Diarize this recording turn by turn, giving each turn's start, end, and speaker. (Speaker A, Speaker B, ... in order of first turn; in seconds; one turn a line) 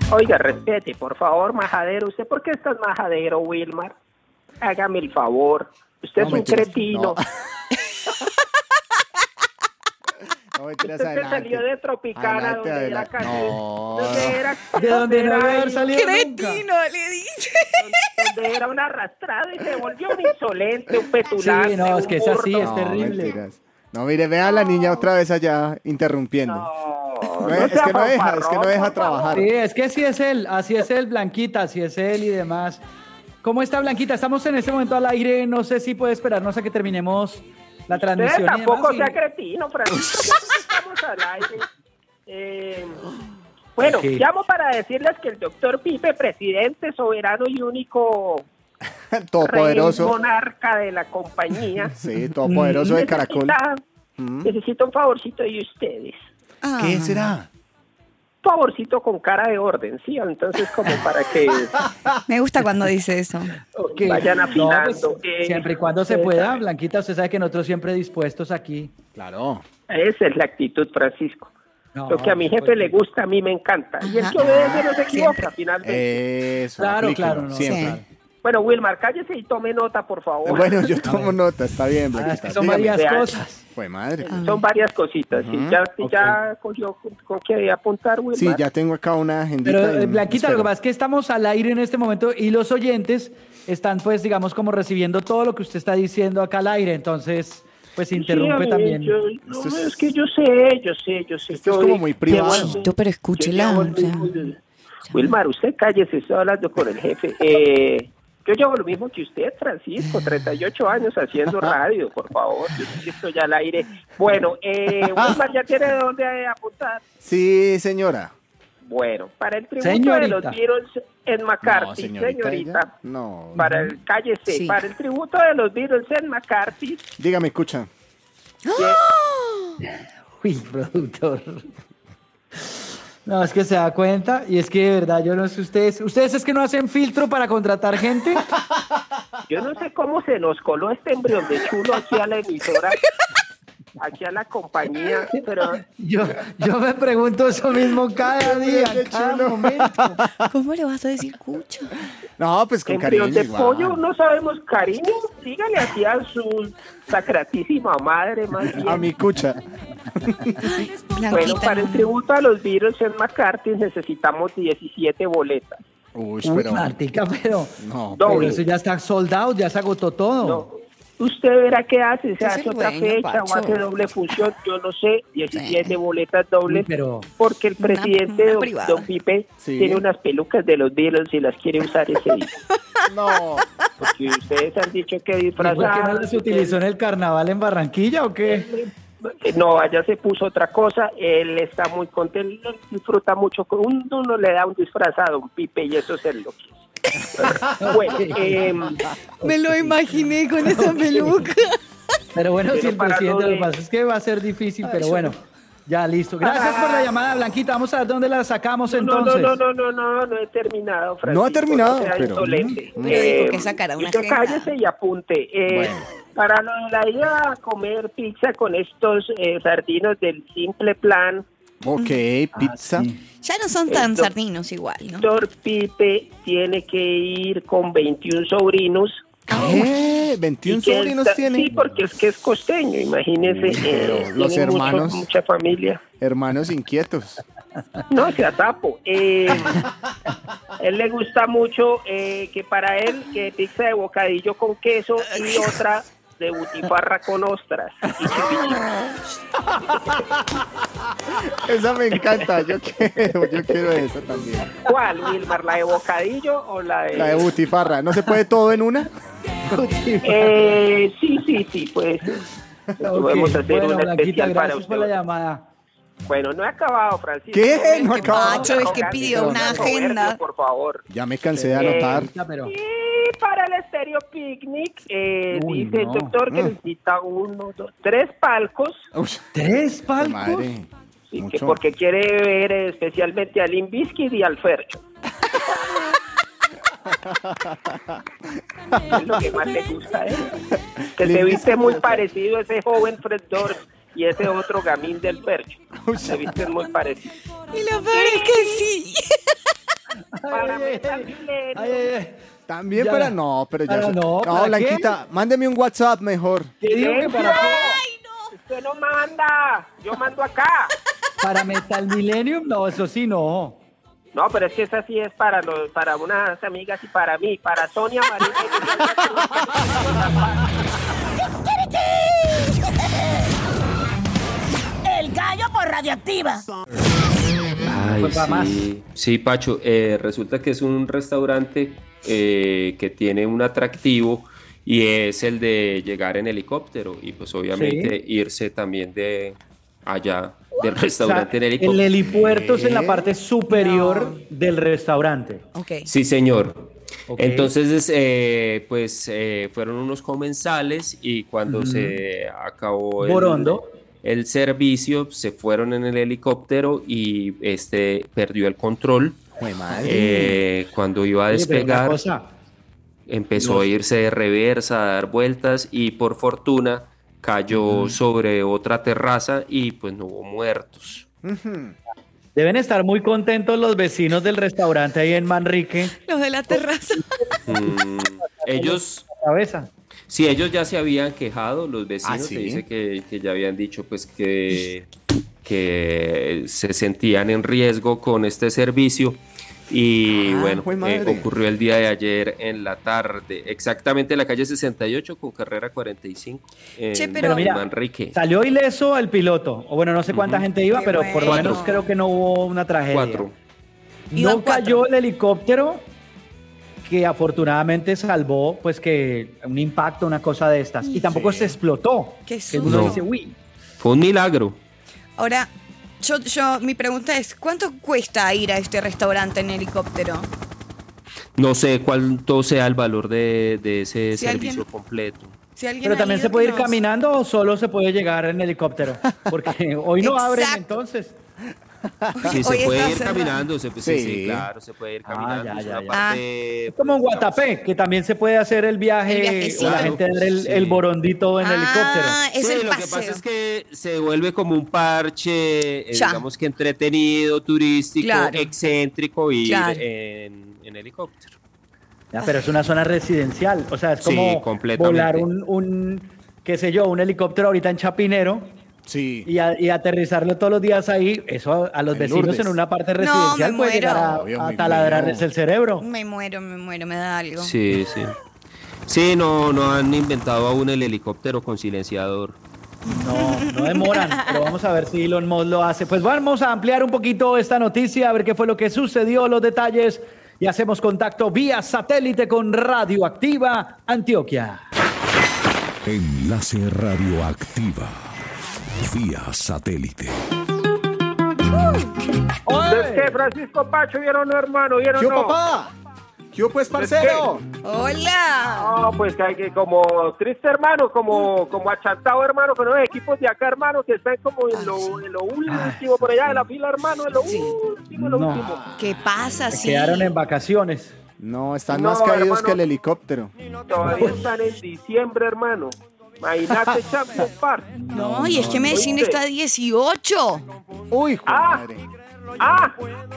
Speaker A: 0.1-3.9
Speaker A: 4.6-7.2
Speaker B: 6.2-7.2
Speaker B: 10.6-11.6
Speaker A: 10.8-15.7
Speaker B: 12.1-14.4
Speaker C: 14.7-16.6
Speaker D: 15.8-18.3
Speaker A: 17.8-22.8
Speaker C: 21.4-23.3
Speaker B: 22.6-26.7
Speaker A: 26.5-29.4
Speaker B: 27.4-29.5
Speaker C: 29.3-32.8
Speaker C: 33.4-39.2
Speaker A: 37.9-41.6
Speaker A: 42.2-43.0
Speaker A: 43.8-48.5
Speaker C: 43.8-44.2
Speaker B: 49.1-50.1
Speaker A: 49.4-51.9
Speaker B: 51.9-53.6
Speaker A: 52.6-53.8
Speaker B: 54.2-54.5
Speaker A: 54.4-56.2
Speaker D: 56.6-57.3
Speaker B: 56.8-57.5
Speaker A: 58.4-61.9
Speaker D: 62.3-63.5
Speaker C: 63.7-68.9
Speaker A: 64.0-66.6
Speaker B: 69.2-69.6
Speaker A: 69.9-71.5
Speaker C: 71.9-73.0
Speaker A: 72.1-76.2
Speaker D: 74.0-75.5
Speaker B: 75.8-78.0
Speaker C: 76.8-78.0
Speaker D: 77.6-78.0
Speaker A: 78.4-81.0
Speaker B: 80.4-83.0
Speaker C: 81.0-81.3
Speaker C: 82.2-83.6
Speaker A: 82.9-83.4
Speaker B: 83.7-84.4
Speaker A: 84.2-88.6
Speaker D: 84.3-84.6
Speaker B: 85.3-86.3
Speaker B: 88.3-90.7
Speaker C: 89.6-99.2
Speaker A: 98.1-104.5
Speaker B: 99.5-99.9
Speaker B: 101.5-102.8
Speaker D: 102.3-104.4
Speaker A: 105.1-117.0
Speaker B: 115.0-115.3
Speaker B: 117.2-118.3
Speaker A: 118.8-122.9
Speaker C: 119.8-120.6
Speaker B: 121.6-123.7
Speaker C: 123.6-123.9
Speaker A: 123.6-127.0
Speaker D: 124.5-124.8
Speaker B: 127.2-127.9
Speaker D: 128.6-129.7
Speaker A: 128.7-129.0
Speaker C: 130.4-131.6
Speaker C: 133.2-138.5
Speaker A: 139.5-143.0
Speaker A: 144.0-145.8
Speaker C: 145.3-150.2
Speaker B: 148.3-150.3
Speaker D: 150.5-151.9
Speaker B: 152.4-154.0
Speaker A: 152.9-159.1
Speaker B: 158.8-159.6
Speaker B: 160.2-160.5
Speaker D: 160.6-162.1
Speaker A: 161.3-165.8
Speaker B: 166.1-166.9
Speaker C: 166.4-170.7
Speaker B: 167.8-168.6
Speaker A: 168.2-168.6
Speaker A: 170.4-176.9
Speaker D: 172.4-173.9
Speaker D: 175.5-176.0
Speaker C: 176.7-177.3
Speaker A: 177.4-182.5
Speaker D: 177.8-179.1
Speaker B: 179.6-180.0
Speaker B: 183.1-183.6
Speaker A: 184.0-186.8
Speaker C: 185.6-188.7
Speaker A: 188.4-196.8
Speaker A: 197.4-199.1
Speaker C: 197.8-198.9
Speaker D: 199.4-201.8
Speaker C: 199.4-199.9
Speaker C: 200.7-201.3
Speaker C: 202.3-209.6
Speaker A: 202.7-203.7
Speaker D: 204.9-205.3
Speaker A: 206.4-207.1
Speaker A: 208.9-221.4
Speaker B: 211.2-213.3
Speaker D: 213.0-214.7
Speaker B: 215.7-216.1
Speaker B: 221.8-223.1
Speaker C: 222.5-223.2
Speaker D: 223.4-225.3
Speaker A: 223.9-224.3
Speaker A: 225.2-229.3
Speaker B: 229.5-231.7
Speaker D: 229.5-229.8
Speaker A: 230.7-236.0
Speaker B: 233.4-235.2
Speaker B: 236.2-237.4
Speaker A: 238.1-239.8
Speaker A: 240.8-248.9
Speaker B: 251.4-254.8
Speaker A: 254.8-257.5
Speaker B: 257.1-259.1
Speaker C: 259.7-260.8
Speaker A: 260.2-262.4
Speaker A: 263.0-265.1
Speaker C: 263.0-265.6
Speaker A: 266.2-271.0
Speaker B: 267.5-269.9
Speaker D: 268.1-270.4
Speaker B: 271.1-272.3
Speaker C: 271.5-272.7
Speaker A: 271.8-279.1
Speaker C: 275.5-276.4
Speaker B: 279.1-279.4
Speaker C: 279.5-280.7
Speaker B: 280.2-281.8
Speaker A: 281.3-285.0
Speaker B: 287.1-288.1
Speaker B: 288.9-289.3
Speaker A: 289.1-290.5
Speaker B: 291.2-292.2
Speaker A: 291.2-297.3
Speaker B: 295.9-296.5
Speaker D: 297.7-299.4
Speaker A: 298.1-298.9
Speaker C: 300.3-302.4
Speaker A: 300.5-302.1
Speaker B: 302.7-306.7
Speaker C: 302.9-303.3
Speaker C: 303.9-305.1
Speaker C: 306.8-307.9
Speaker A: 306.9-308.0
Speaker D: 307.4-308.5
Speaker A: 308.5-310.9
Speaker C: 311.4-313.8
Speaker A: 314.3-320.7
Speaker E: 321.6-323.5
Speaker E: 325.0-326.6
Speaker C: 327.9-328.8
Speaker F: 327.9-342.1
Speaker C: 337.7-338.1
Speaker C: 341.0-345.6
Speaker B: 342.3-343.3
Speaker D: 343.7-344.4
Speaker D: 345.7-346.1
Speaker F: 346.1-359.4
Speaker C: 347.3-347.7
Speaker C: 351.7-352.2
Speaker C: 353.2-353.9
Speaker B: 359.6-360.6
Speaker F: 360.0-362.2
Speaker C: 361.5-362.5
Speaker F: 363.3-371.2
Speaker C: 363.6-363.9
Speaker B: 367.7-368.1
Speaker B: 371.4-371.9
Speaker C: 372.6-376.2
Speaker D: 376.2-377.3
Speaker F: 377.7-379.2
Speaker C: 378.4-379.9
Speaker F: 380.3-385.1
Speaker B: 382.2-382.8
Speaker F: 385.6-398.4
Speaker B: 390.3-391.5
Speaker D: 397.1-397.7
Speaker C: 397.4-403.4
Speaker F: 400.3-400.7
Speaker D: 400.9-402.0
Speaker F: 401.4-401.9
Speaker F: 403.1-403.5
Speaker C: 404.3-406.1
Speaker D: 404.3-405.0
Speaker C: 407.0-413.6
Speaker B: 411.2-411.8
Speaker D: 412.5-413.2
Speaker F: 412.8-413.2
Speaker F: 414.0-414.8
Speaker D: 415.4-420.5
Speaker F: 421.6-425.5
Speaker D: 424.3-424.8
Speaker D: 425.8-426.9
Speaker C: 426.0-431.4
Speaker D: 430.2-430.9
Speaker B: 432.2-432.6
Speaker D: 432.4-433.6
Speaker F: 432.5-437.6
Speaker B: 434.0-434.7
Speaker C: 435.2-436.2
Speaker D: 436.1-436.4
Speaker C: 436.9-442.4
Speaker D: 439.3-440.2
Speaker F: 439.8-441.0
Speaker D: 441.6-443.4
Speaker F: 442.6-451.5
Speaker D: 446.1-446.4
Speaker D: 448.2-448.7
Speaker D: 449.6-450.0
Speaker C: 452.3-458.7
Speaker D: 452.4-452.7
Speaker F: 454.2-455.5
Speaker B: 459.1-459.5
Speaker C: 459.4-466.0
Speaker B: 462.1-462.8
Speaker D: 463.2-464.4
Speaker B: 464.2-465.4
Speaker D: 466.0-467.7
Speaker F: 467.6-468.3
Speaker F: 469.1-472.6
Speaker D: 473.1-474.7
Speaker C: 473.1-484.9
Speaker G: 486.0-488.3
Speaker G: 489.0-490.4
Speaker D: 491.8-492.1
Speaker C: 492.6-493.4
Speaker A: 492.8-495.6
Speaker B: 495.1-495.9
Speaker B: 496.5-497.6
Speaker A: 496.9-497.5
Speaker D: 497.8-499.0
Speaker A: 498.8-508.9
Speaker D: 504.7-505.2
Speaker C: 505.7-506.6
Speaker D: 507.4-507.8
Speaker C: 508.1-508.7
Speaker B: 508.5-509.2
Speaker D: 508.9-510.3
Speaker C: 509.7-511.1
Speaker B: 511.4-513.5
Speaker A: 511.9-512.8
Speaker A: 513.9-518.0
Speaker C: 514.0-514.4
Speaker C: 517.9-519.2
Speaker D: 518.1-520.6
Speaker A: 518.9-519.4
Speaker B: 521.1-522.0
Speaker A: 521.5-521.8
Speaker A: 522.6-523.0